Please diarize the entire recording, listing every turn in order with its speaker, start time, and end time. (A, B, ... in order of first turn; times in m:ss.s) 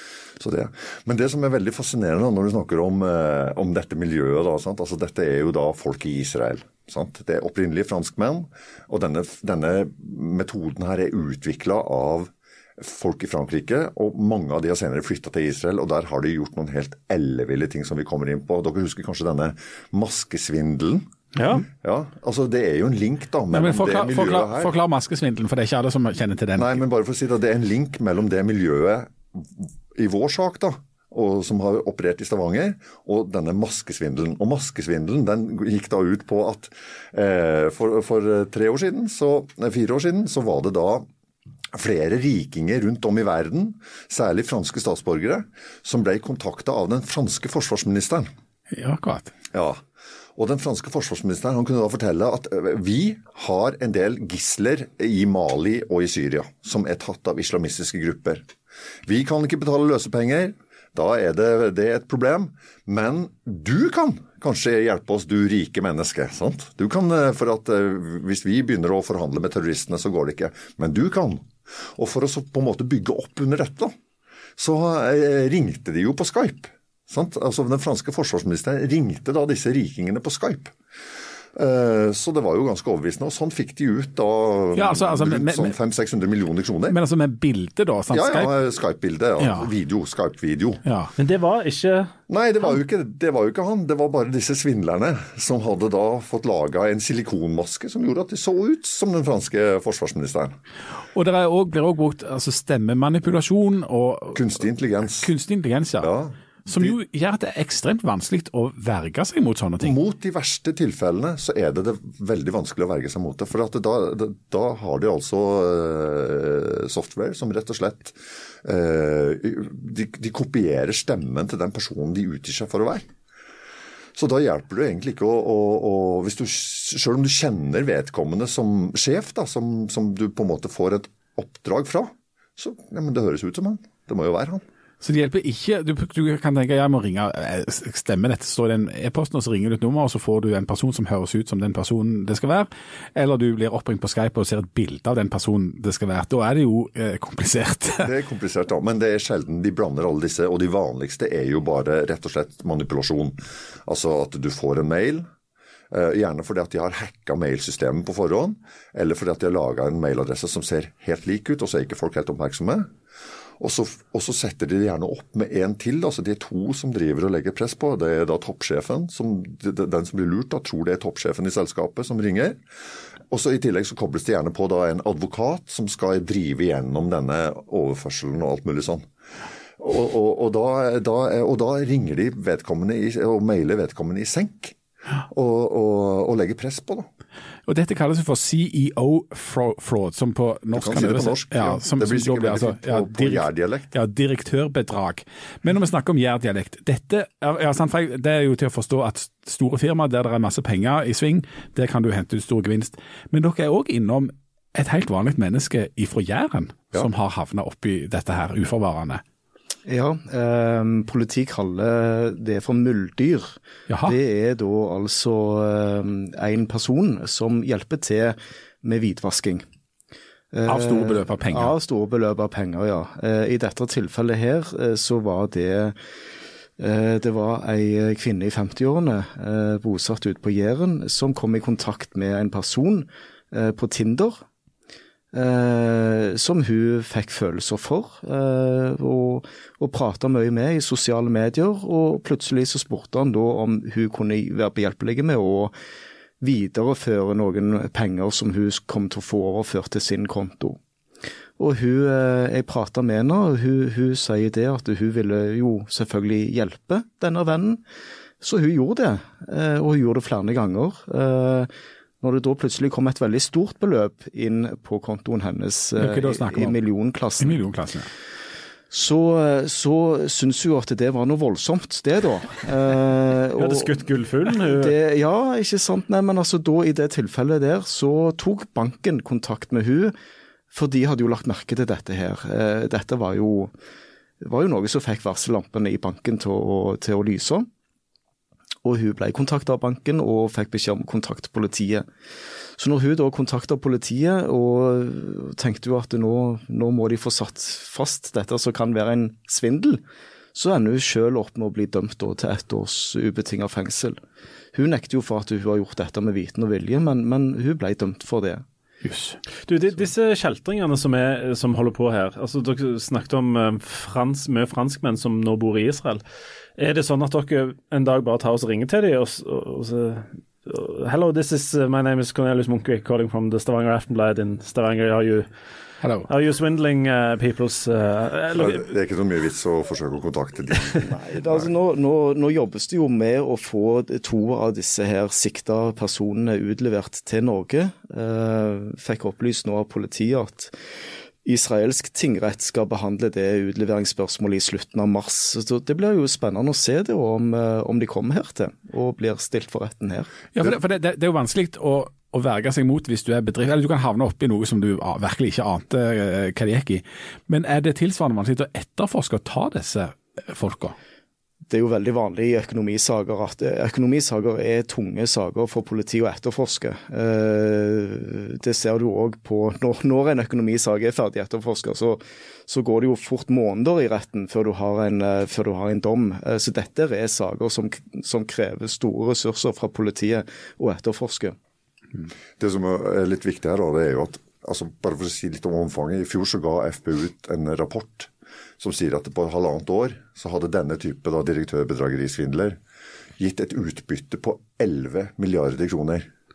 0:00.4-0:21.0 A
0:21.4-0:21.6 B
0:21.7-0:24.7 A
0:23.5-0:26.8 C
0:26.6-0:41.1 A
0:41.7-0:48.3 A
0:48.7-0:49.3 C
0:49.5-0:49.8 A
0:50.4-0:58.4 A
0:59.1-1:14.0 A
1:14.6-1:20.8 A
1:21.6-1:27.0 A
1:24.8-1:25.8 C
1:26.9-1:28.5 C
1:28.1-1:30.8 A
1:29.4-1:29.7 C
1:30.8-1:31.1 C
1:31.2-1:32.1 B
1:32.3-1:40.6 A
1:41.1-1:44.4 C
1:44.3-1:45.3 A
1:45.2-1:46.1 C
1:46.0-1:47.0 A
1:46.7-1:50.0 C
1:49.8-2:03.1 A
2:04.2-2:14.6 A
2:15.0-2:28.1 C
2:28.0-2:35.3 A
2:35.9-2:42.9 A
2:43.6-2:52.6 A
2:53.3-2:59.1 A
2:59.8-3:07.1 A
3:07.7-3:29.2 C
3:10.7-3:13.9 A
3:29.9-3:39.7 D
3:33.9-3:34.2 C
3:40.5-3:46.0 D
3:40.7-3:41.8 C
3:46.8-3:54.4 D
3:55.3-4:05.7 D
4:06.4-4:10.8 D
4:11.6-4:17.8 D
4:18.4-4:21.7 D
4:22.2-4:27.6 D
4:26.0-4:26.8 C
4:27.4-4:28.1 C
4:28.9-4:40.1 D
4:33.6-4:35.0 B
4:40.7-4:43.7 D
4:44.4-4:47.7 D
4:48.8-4:52.1 D
4:52.8-5:00.0 D
5:00.5-5:04.2 D
5:04.7-5:08.6 D
5:09.0-5:09.4 C
5:09.7-5:16.2 B
5:16.8-5:25.5 B
5:26.0-5:26.3 C
5:26.3-5:28.9 B
5:28.5-5:31.7 A
5:31.1-5:40.7 D
5:41.4-5:50.4 D
5:50.5-6:01.0 C
6:01.7-6:21.6 D
6:22.6-6:32.8 A
6:33.4-6:36.3 A